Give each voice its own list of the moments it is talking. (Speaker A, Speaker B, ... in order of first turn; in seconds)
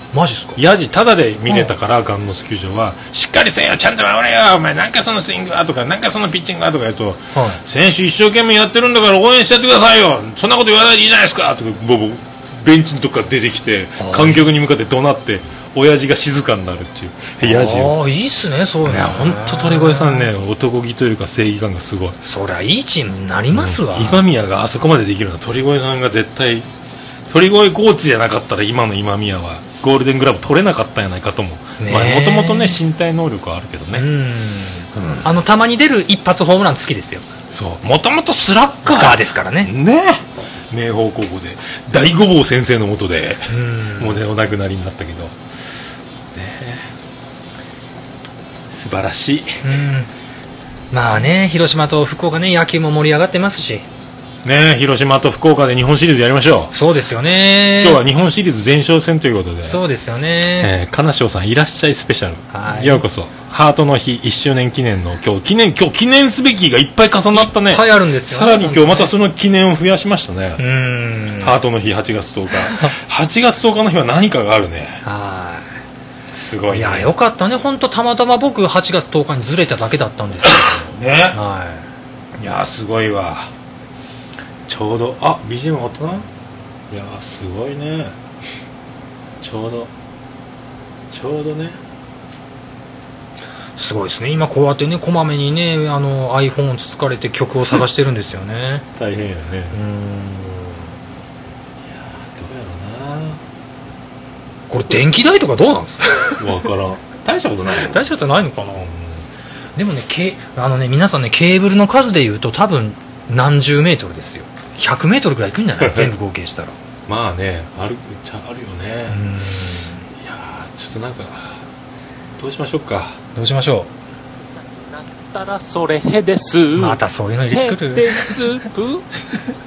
Speaker A: 0.1-0.6, 1.5-1.7, 7.3-7.6, 14.0-14.5, 17.4-20.3, 22.2-24.2, 31.8-32.8, 33.9-37.2, 38.8-39.7, 43.5-44.2, 49.6-50.1, 50.9-53.8, 56.7-58.0, 59.6-60.7, 62.5-63.0, 67.3-69.1, 70.6-71.5, 72.6-72.9, 75.0-75.7, 76.7-80.8, 81.3-81.9, 93.8-98.9, 99.7-100.9, 104.7-106.5, 107.8-108.9, 109.8-116.8, 119.1-120.1, 123.3-123.9, 126.8-128.4
Speaker B: 0.6-17.9, 18.9-22.2, 23.5-26.7, 27.3-34.1, 34.9-35.3, 37.5-45.3, 46.3-46.9, 48.7-49.7, 54.4-56.7, 57.8-59.8, 60.6-70.6, 71.4-75.0, 76.3-77.1, 80.4-81.4, 82.4-83.5, 84.7-86.2, 86.9-88.1, 89.4-89.9, 91.1-91.8, 99.0-99.8, 101.9-103.4, 106.3-108.0, 108.8-109.2, 115.8-116.1, 117.1-119.2, 120.1-121.6, 122.4-123.2
Speaker C: 124.9-129.1